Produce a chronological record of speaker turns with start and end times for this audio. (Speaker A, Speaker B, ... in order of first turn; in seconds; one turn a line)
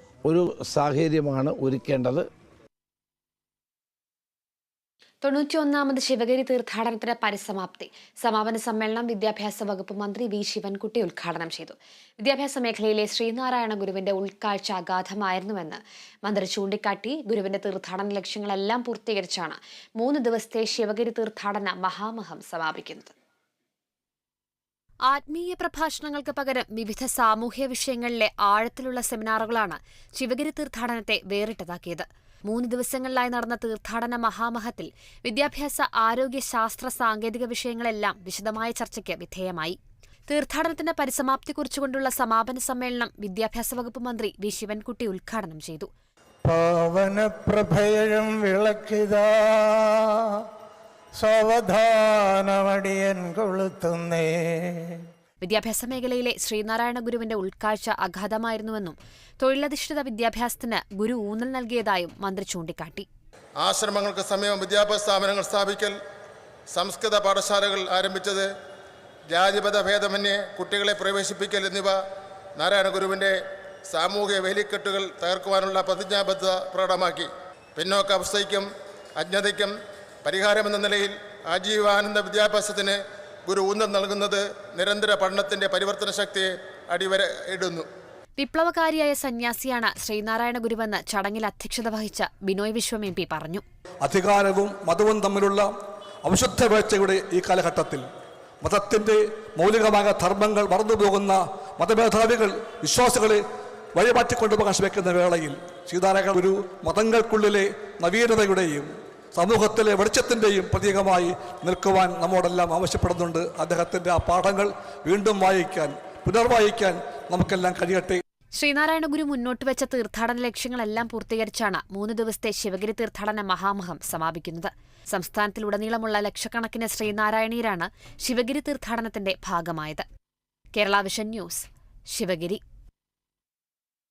Speaker A: 0.2-2.2
Speaker B: 5.2-23.1
Speaker B: 25.1-39.8
Speaker B: 40.3-45.9
Speaker C: 46.4-50.4
Speaker C: 51.2-55.0
Speaker B: 55.4-63.1
Speaker D: 63.6-66.0
Speaker D: 66.7-68.5
Speaker D: 69.3-72.0
Speaker D: 72.6-73.3
Speaker D: 73.9-79.7
Speaker D: 80.2-87.9
Speaker B: 88.4-93.6
Speaker E: 94.0-95.7
Speaker E: 96.2-98.0
Speaker E: 98.6-103.4
Speaker E: 103.9-118.2
Speaker B: 118.5-130.0
Speaker B: 130.7-132.6